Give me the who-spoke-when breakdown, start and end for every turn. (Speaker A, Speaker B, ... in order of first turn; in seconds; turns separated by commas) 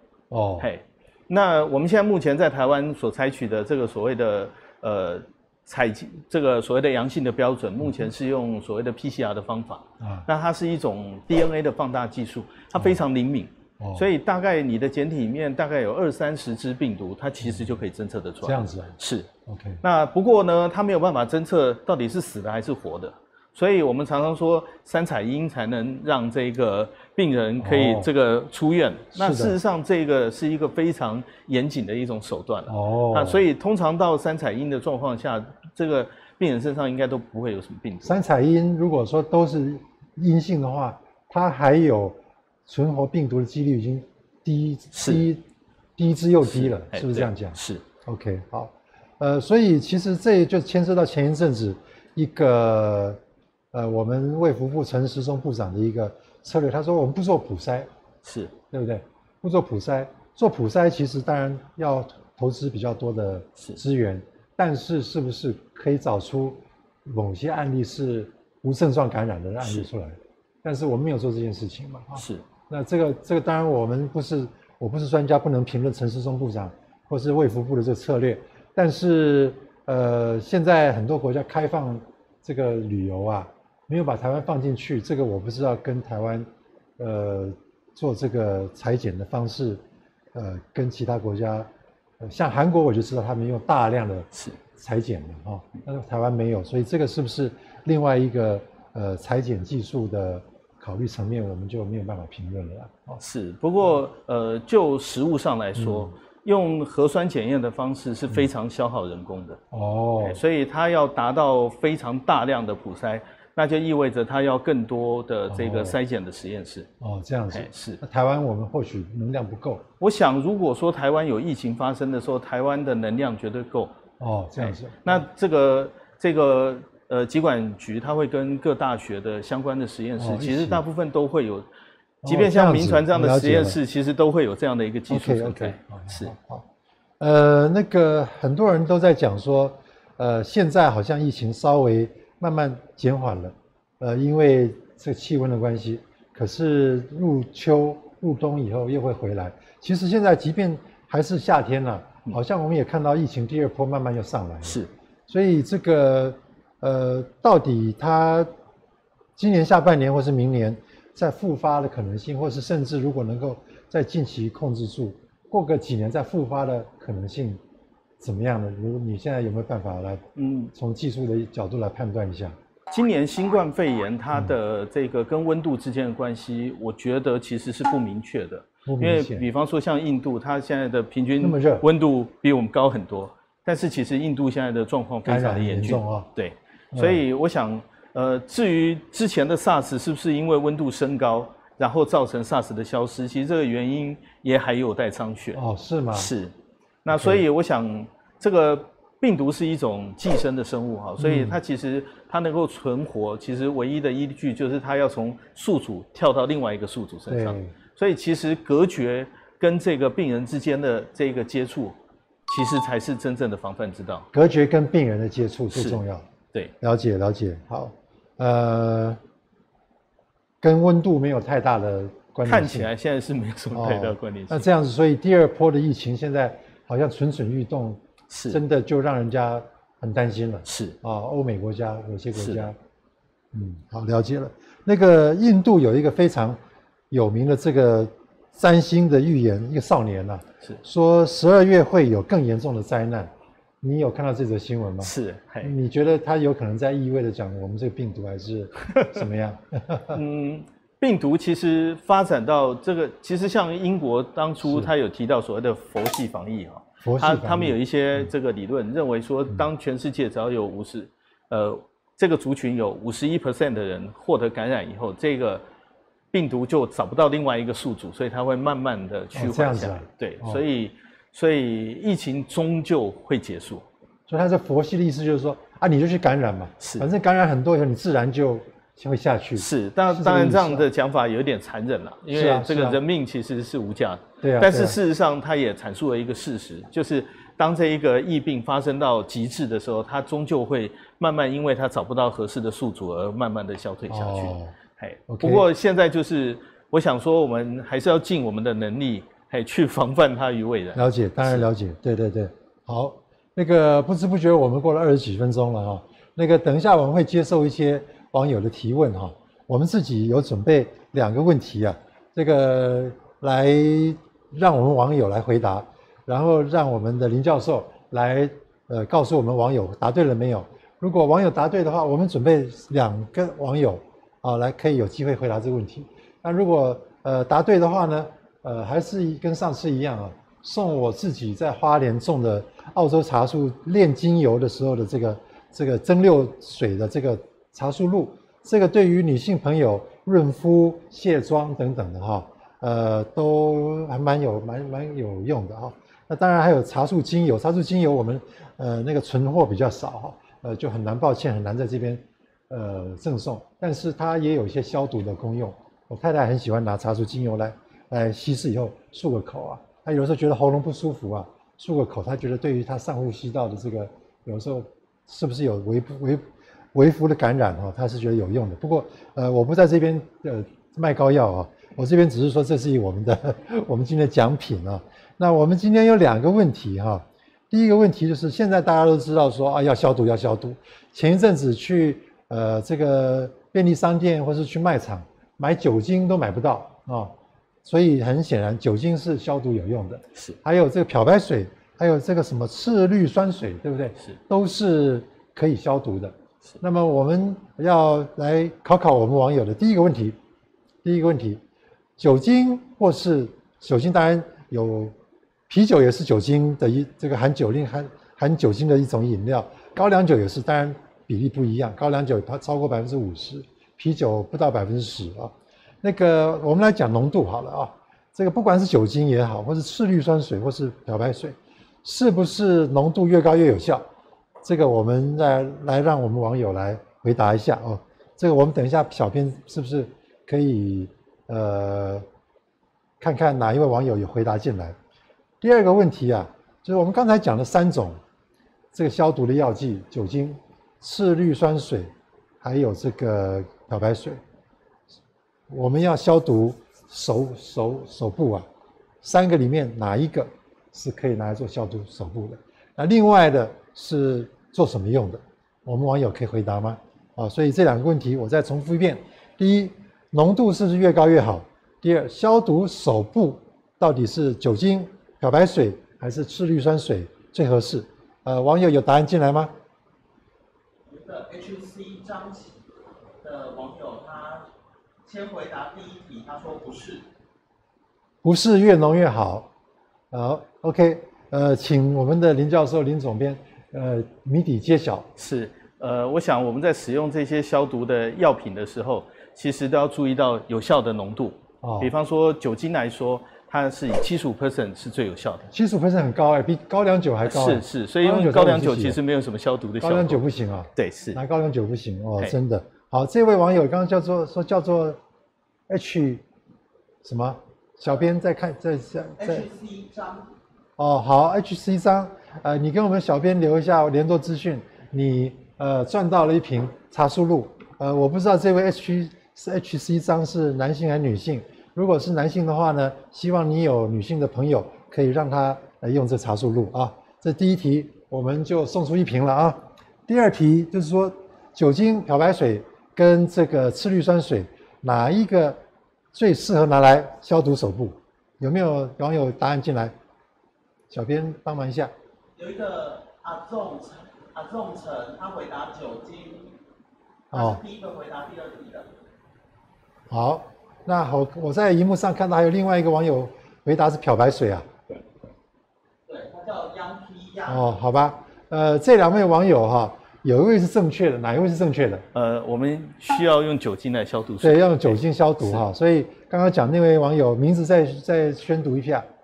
Speaker A: 0.3-0.7, Speaker B: 0.6-19.3, Speaker A: 10.0-10.3, Speaker A: 13.8-14.1, Speaker A: 17.4-17.8, Speaker A: 18.4-19.8, Speaker B: 19.8-38.2, Speaker A: 27.6-28.1, Speaker A: 29.1-29.6, Speaker A: 32.7-33.5, Speaker A: 38.0-45.4, Speaker B: 44.9-45.3, Speaker A: 46.0-53.2, Speaker B: 46.4-47.8, Speaker A: 53.7-57.9, Speaker B: 58.2-58.5, Speaker A: 58.7-86.5, Speaker B: 72.2-72.5, Speaker A: 87.0-89.8, Speaker A: 90.3-91.7, Speaker A: 92.2-103.2, Speaker B: 94.3-94.6, Speaker B: 103.2-109.6, Speaker A: 105.8-106.1, Speaker A: 109.7-110.4, Speaker B: 110.2-116.9, Speaker A: 115.5-116.0, Speaker A: 117.0-119.8, Speaker B: 117.5-118.0, Speaker B: 120.0-124.0, Speaker A: 124.2-125.2, Speaker B: 124.6-131.7, Speaker A: 130.2-130.8, Speaker A: 132.2-133.8, Speaker B: 132.2-136.3, Speaker A: 135.1-136.7, Speaker A: 137.2-158.5, Speaker B: 154.6-154.9, Speaker A: 159.4-167.6, Speaker A: 168.2-172.6, Speaker B: 170.4-170.7, Speaker B: 172.9-195.6, Speaker A: 178.9-179.5, Speaker A: 181.4-181.8, Speaker A: 185.2-186.3, Speaker A: 186.9-187.2, Speaker A: 195.6-196.3, Speaker B: 196.1-196.5, Speaker B: 197.1-214.3, Speaker A: 197.1-197.4, Speaker A: 201.2-201.6, Speaker A: 207.3-207.7, Speaker A: 214.3-216.3, Speaker B: 215.7-216.0, Speaker A: 216.8-219.2, Speaker A: 220.6-222.9, Speaker B: 222.4-224.7, Speaker A: 223.7-232.8, Speaker B: 228.3-228.6, Speaker B: 230.7-231.0, Speaker B: 232.4-232.7, Speaker A: 233.5-236.6, Speaker A: 237.1-250.2, Speaker B: 245.0-245.7, Speaker B: 250.1-265.6, Speaker A: 257.0-257.8, Speaker B: 266.3-273.9, Speaker A: 269.4-270.6, Speaker A: 274.3-280.9, Speaker B: 276.8-277.1, Speaker B: 279.6-301.7, Speaker A: 282.3-283.0, Speaker A: 284.4-285.0, Speaker A: 294.1-294.7, Speaker A: 295.3-295.6, Speaker A: 300.9-400.4, Speaker A: 401.0-401.6, Speaker A: 402.2-405.1, Speaker A: 405.7-424.1, Speaker A: 424.6-432.2, Speaker A: 433.2-435.0, Speaker A: 435.6-438.2, Speaker A: 438.9-444.4, Speaker A: 445.7-448.7, Speaker A: 449.2-469.7, Speaker C: 471.1-472.8, Speaker C: 473.4-474.7, Speaker C: 475.3-477.3, Speaker A: 478.4-479.7, Speaker A: 480.3-485.3, Speaker B: 485.4-495.7, Speaker A: 491.8-492.1, Speaker A: 495.7-499.2, Speaker B: 497.4-500.4, Speaker A: 500.0-505.2, Speaker B: 501.0-501.4, Speaker A: 505.9-506.4, Speaker A: 507.2-509.7, Speaker C: 509.4-510.5, Speaker A: 511.0-535.8, Speaker A: 536.3-540.1, Speaker A: 541.1-542.1, Speaker C: 542.6-546.7, Speaker A: 547.5-547.8, Speaker C: 547.5-549.1, Speaker A: 550.3-554.9, Speaker C: 556.3-557.9, Speaker A: 557.7-562.2, Speaker B: 562.3-565.9, Speaker A: 564.6-569.3